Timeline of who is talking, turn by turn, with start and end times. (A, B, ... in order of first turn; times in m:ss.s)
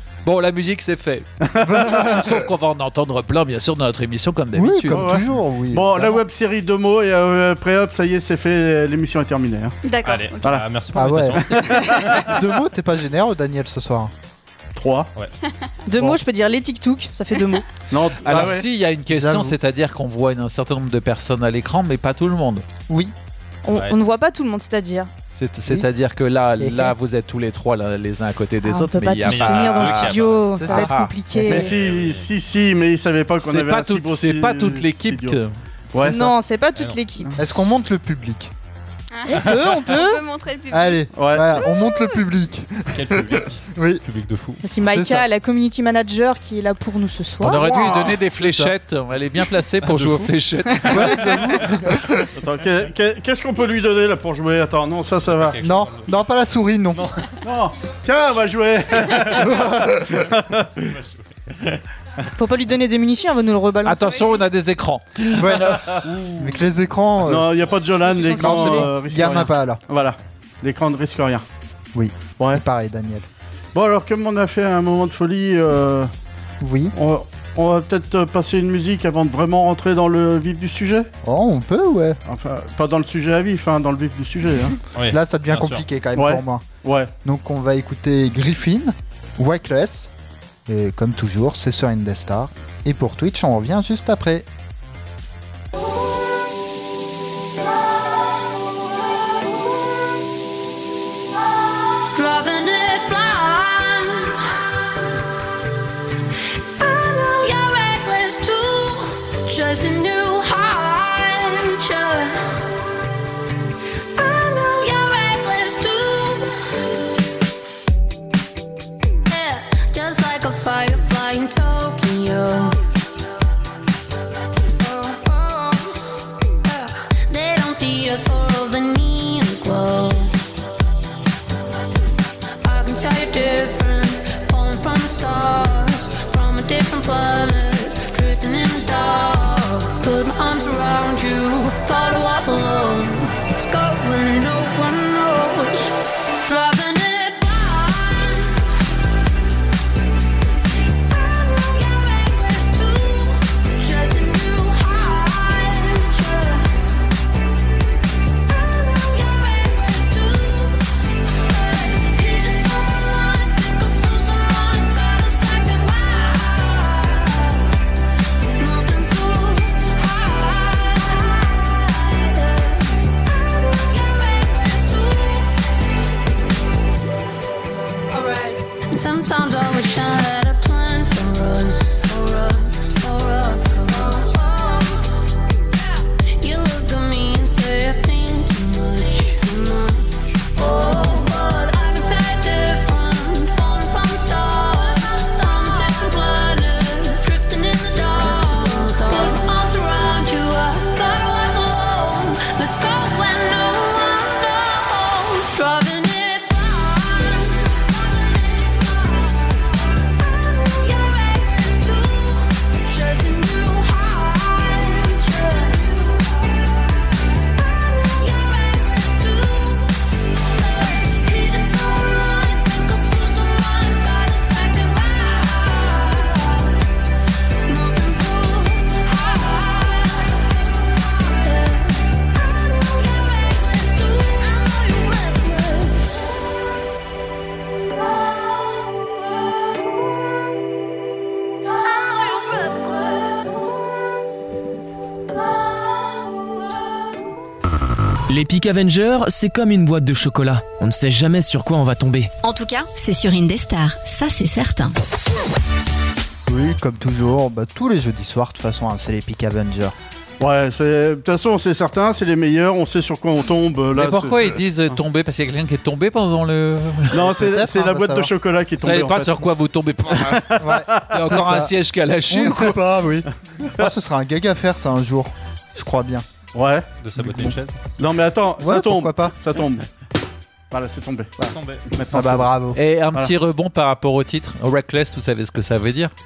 0:00.2-0:05.2 A
0:01.4-0:02.1 B
0:01.6-0:02.2 C
0:04.5-0:06.2 C
0:04.9-0:09.7 B
0:09.8-0:10.6 D
0:10.0-0:12.4 E
0:10.9-0:14.1 C
0:11.5-0:12.0 B
0:14.8-0:15.1 B
0:15.9-0:17.6 F
0:17.9-0:18.7 B
0:18.2-0:22.6 A
0:19.1-0:19.5 C
0:22.9-0:23.1 C
0:23.6-0:25.1 F
0:23.7-0:24.0 E
0:25.3-0:31.2 A
0:26.6-0:27.0 C
0:28.6-0:31.7 F
0:29.2-0:30.5 E
0:30.6-0:31.6 C
0:31.4-0:35.4 B
0:31.5-0:32.3 E
0:33.4-0:35.6 A
0:35.9-0:36.2 B
0:36.0-0:37.3 F
0:37.4-0:38.5 C
0:39.1-0:42.2 D
0:39.3-0:40.2 F
0:40.7-0:44.0 C
0:41.1-0:41.6 B
0:42.9-0:44.6 E
0:44.6-0:47.7 F
0:44.9-0:45.2 C
0:47.4-0:51.4 A
0:47.6-0:48.7 C
0:47.8-0:48.2 B
0:49.8-0:50.3 E
0:50.7-0:51.6 F
0:50.9-0:52.3 C
0:52.4-0:55.6 B
0:55.3-0:56.2 E
0:55.6-0:57.0 C
0:56.9-0:57.4 E
0:57.4-1:00.9 B
0:59.3-1:00.2 C
1:00.9-1:01.8 E
1:02.3-1:04.3 F
1:03.8-1:06.3 A
1:05.3-1:07.5 C
1:07.2-1:11.4 B
1:08.0-1:08.9 F
1:08.4-1:09.8 C
1:11.9-1:13.2 C
1:13.7-1:16.1 B
1:16.6-1:16.9 C
1:16.9-1:21.1 B
1:21.2-1:22.2 C
1:22.2-1:24.8 B
1:24.9-1:25.8 E
1:25.0-1:26.6 C
1:26.1-1:27.1 B
1:27.2-1:30.1 C
1:30.7-1:34.5 C
1:42.1-1:44.4 G
1:46.8-1:52.4 G
1:54.2-1:56.5 G
1:59.3-2:02.8 G
2:04.8-2:05.9 G
2:06.7-2:10.3 G
2:12.6-2:28.5 G
2:31.1-2:36.7 G
2:38.6-2:40.8 G
2:41.5-2:47.6 G
2:48.5-2:53.0 G
2:53.7-2:55.5 G
2:58.1-3:05.0 G
3:06.4-3:29.4 G
3:30.5-3:36.5 G
3:37.8-3:39.9 G
3:40.6-3:46.7 G
3:47.6-3:52.2 G
3:52.8-3:56.3 G
4:02.3-4:02.7 G
4:08.3-4:12.4 H
4:12.4-4:14.9 I
4:16.5-4:19.9 C
4:20.4-4:25.0 B
4:23.9-4:27.2 A
4:27.1-4:29.5 B
4:27.2-4:28.3 C
4:28.8-4:32.8 A
4:30.1-4:31.3 B
4:30.6-4:31.7 C
4:32.3-4:36.2 C
4:36.5-4:37.0 B
4:37.0-4:37.8 E
4:37.2-4:37.5 C
4:38.0-4:39.8 B
4:38.6-4:39.4 C
4:40.7-4:42.6 B
4:41.4-4:41.8 E
4:42.1-4:42.8 C
4:42.7-4:46.1 A